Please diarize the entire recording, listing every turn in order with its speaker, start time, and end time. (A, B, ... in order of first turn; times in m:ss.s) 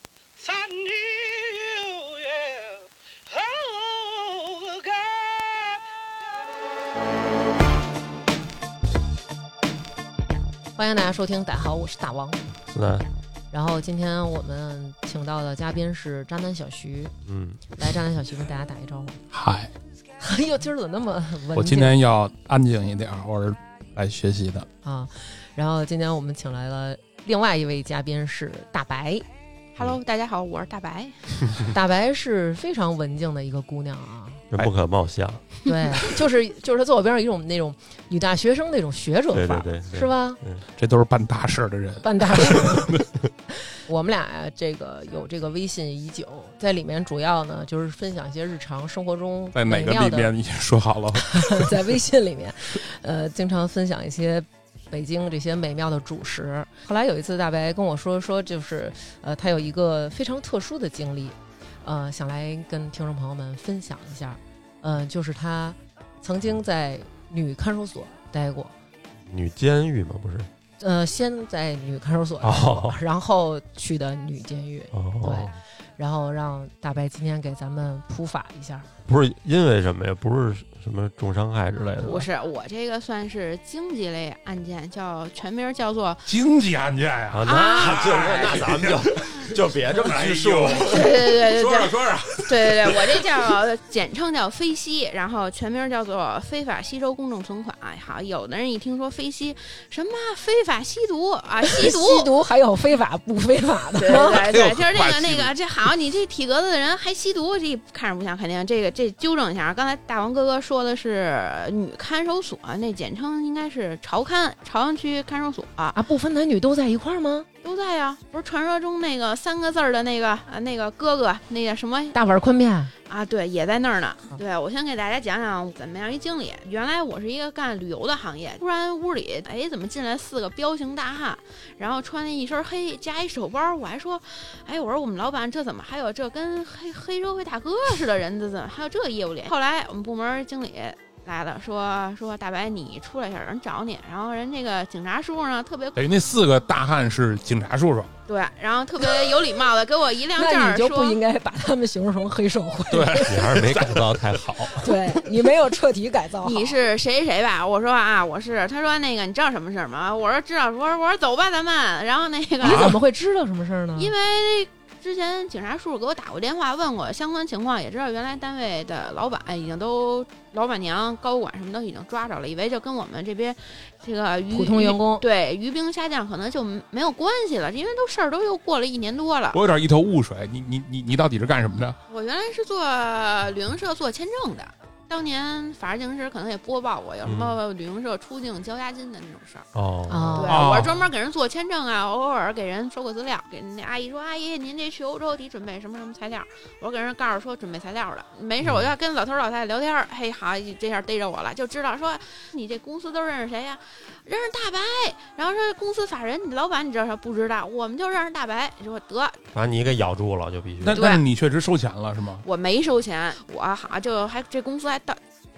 0:00.4-0:06.3 A
0:10.8-0:12.4 B
0:12.7-0:13.1 C
0:13.5-0:17.1 B
0:17.2-0:17.7 C
0:17.8-0:19.2 B
0:19.3-0:19.7 D
0:20.2-0:21.9 B
0:21.5-0:24.7 D
0:24.8-0:29.3 B
0:29.8-0:31.3 E
0:31.7-0:34.4 B
0:34.5-0:35.4 C
0:35.7-0:40.4 B
0:39.3-0:40.6 C
0:40.8-0:43.0 D
0:42.0-0:43.0 B
0:43.9-0:50.3 B
0:49.5-0:51.8 D
0:51.3-1:08.7 B
1:09.2-1:10.5 C
1:10.8-1:18.9 B
1:12.4-1:13.0 C
1:14.9-1:15.6 C
1:19.0-1:22.3 C
1:22.0-1:26.3 E
1:26.3-1:33.4 D
1:27.3-1:31.1 C
1:27.4-1:28.5 E
1:30.8-1:42.3 E
1:41.6-1:44.4 B
1:44.0-1:56.0 E
1:44.2-1:45.6 D
1:56.0-1:57.5 B
1:57.6-2:02.2 E
2:02.1-2:02.9 B
2:03.1-2:26.0 E
2:26.0-2:28.1 D
2:28.3-2:31.2 E
2:30.4-2:33.4 B
2:32.9-2:34.4 D
2:33.2-2:35.0 C
2:34.8-2:36.8 B
2:36.4-2:42.9 E
2:42.6-2:44.1 B
2:42.6-2:43.0 D
2:44.0-2:59.6 E
2:54.5-2:55.2 B
2:59.5-3:02.0 D
3:02.1-3:09.7 E
3:07.2-3:07.6 C
3:09.7-3:10.7 C
3:10.1-3:10.6 B
3:10.4-3:29.4 E
3:10.5-3:11.0 D
3:18.6-3:18.9 C
3:29.5-3:31.0 C
3:30.8-3:32.4 D
3:30.9-3:31.2 E
3:32.4-3:35.2 E